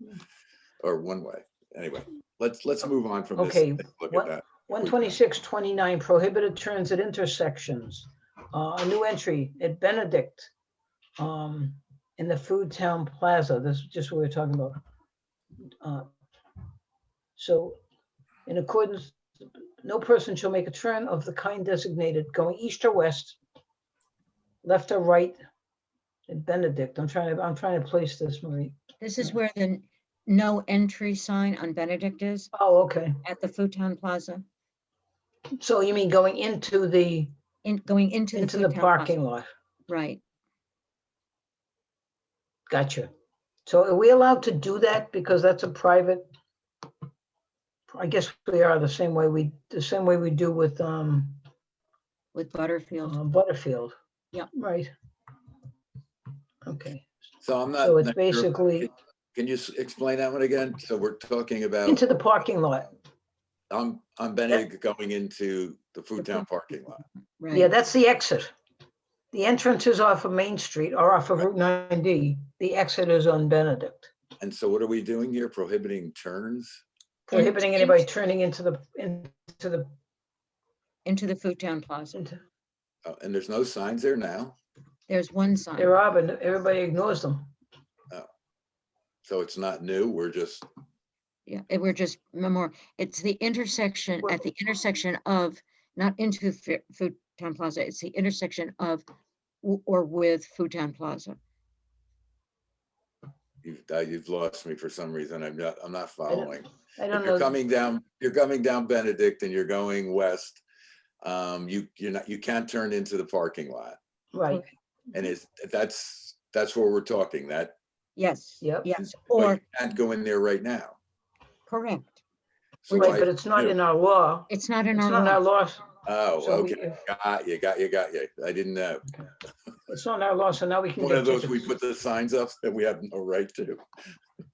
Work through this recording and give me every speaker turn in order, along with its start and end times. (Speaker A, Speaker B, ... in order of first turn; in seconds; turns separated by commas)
Speaker A: 0.8-5.1, Speaker B: 3.4-10.5, Speaker B: 11.2-14.8, Speaker B: 15.8-16.1, Speaker B: 17.4-17.8, Speaker B: 18.5-19.2, Speaker B: 19.8-23.4, Speaker B: 24.6-25.4, Speaker B: 26.3-29.3, Speaker C: 29.0-32.5, Speaker B: 32.5-33.2, Speaker C: 33.2-34.5, Speaker B: 35.6-37.3, Speaker C: 37.6-39.1, Speaker B: 38.3-39.5, Speaker C: 39.9-40.2, Speaker B: 42.7-43.1, Speaker B: 43.7-46.3, Speaker B: 47.9-51.4, Speaker C: 52.3-53.2, Speaker B: 53.0-54.0, Speaker B: 54.5-54.9, Speaker B: 56.6-57.0, Speaker A: 57.4-62.0, Speaker B: 57.8-58.9, Speaker B: 61.9-62.9, Speaker A: 63.7-67.0, Speaker C: 66.2-66.5, Speaker C: 67.4-67.7, Speaker B: 67.5-68.5, Speaker B: 69.3-74.1, Speaker A: 74.4-76.8, Speaker B: 77.3-79.9, Speaker C: 77.3-78.1, Speaker C: 81.0-82.2, Speaker B: 82.1-82.4, Speaker A: 83.0-84.5, Speaker C: 85.1-85.9, Speaker B: 85.8-87.5, Speaker A: 89.2-90.7, Speaker C: 91.5-99.0, Speaker C: 99.6-101.4, Speaker A: 103.6-110.6, Speaker B: 106.3-107.6, Speaker A: 111.2-114.0, Speaker B: 114.3-114.7, Speaker A: 115.1-117.8, Speaker C: 118.2-119.6, Speaker B: 118.6-118.9, Speaker A: 119.0-121.0, Speaker C: 121.7-122.2, Speaker A: 122.8-123.8, Speaker C: 122.9-123.2, Speaker B: 122.9-125.9, Speaker C: 124.5-125.4, Speaker A: 126.0-129.1, Speaker B: 126.4-127.0, Speaker B: 129.9-131.7, Speaker A: 131.0-133.8